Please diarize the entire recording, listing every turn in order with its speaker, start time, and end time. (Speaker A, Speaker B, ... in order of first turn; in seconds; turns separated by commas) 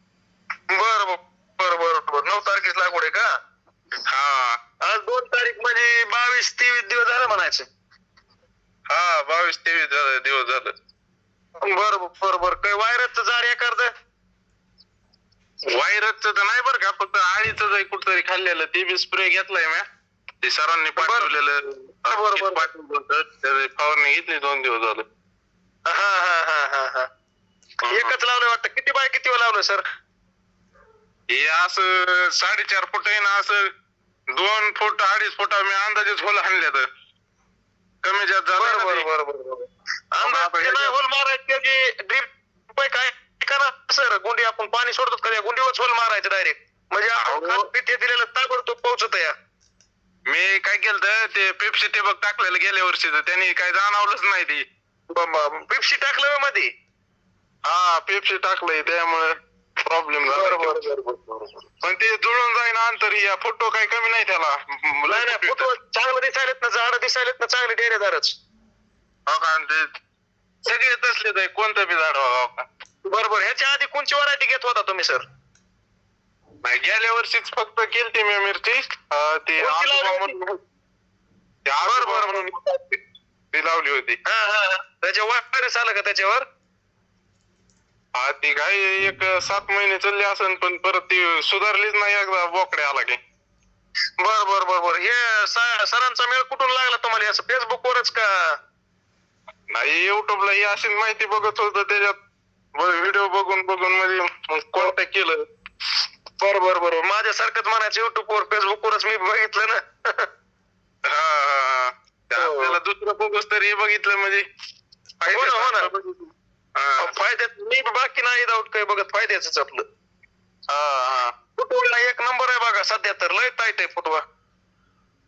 Speaker A: 0.7-3.3, Speaker B: 4.1-4.6, Speaker A: 4.8-7.7, Speaker B: 8.9-10.7, Speaker A: 11.6-13.9, Speaker B: 15.6-19.8, Speaker B: 20.4-25.0, Speaker A: 21.0-21.3, Speaker A: 22.1-22.7, Speaker A: 25.9-27.1, Speaker B: 27.8-28.1, Speaker A: 27.9-29.8, Speaker B: 31.3-33.7, Speaker B: 34.3-36.9, Speaker B: 38.0-39.1, Speaker A: 38.6-49.3, Speaker B: 40.2-40.9, Speaker B: 47.2-47.6, Speaker B: 50.3-54.6, Speaker A: 55.1-56.7, Speaker B: 57.6-60.8, Speaker A: 60.2-61.5, Speaker B: 61.8-65.7, Speaker A: 65.1-68.3, Speaker B: 69.3-69.9, Speaker B: 70.6-72.7, Speaker A: 73.0-75.2, Speaker B: 76.6-80.6, Speaker A: 79.6-80.3, Speaker B: 81.7-83.0, Speaker A: 81.8-82.6, Speaker B: 83.5-84.2, Speaker A: 84.2-86.5, Speaker B: 88.1-93.2, Speaker A: 94.2-98.5, Speaker B: 99.7-102.2, Speaker B: 102.8-105.4, Speaker A: 106.4-110.3, Speaker B: 111.1-114.4, Speaker A: 112.3-112.8, Speaker B: 115.2-117.1, Speaker A: 115.3-115.9, Speaker A: 117.0-119.8, Speaker B: 120.7-121.3, Speaker A: 121.6-124.2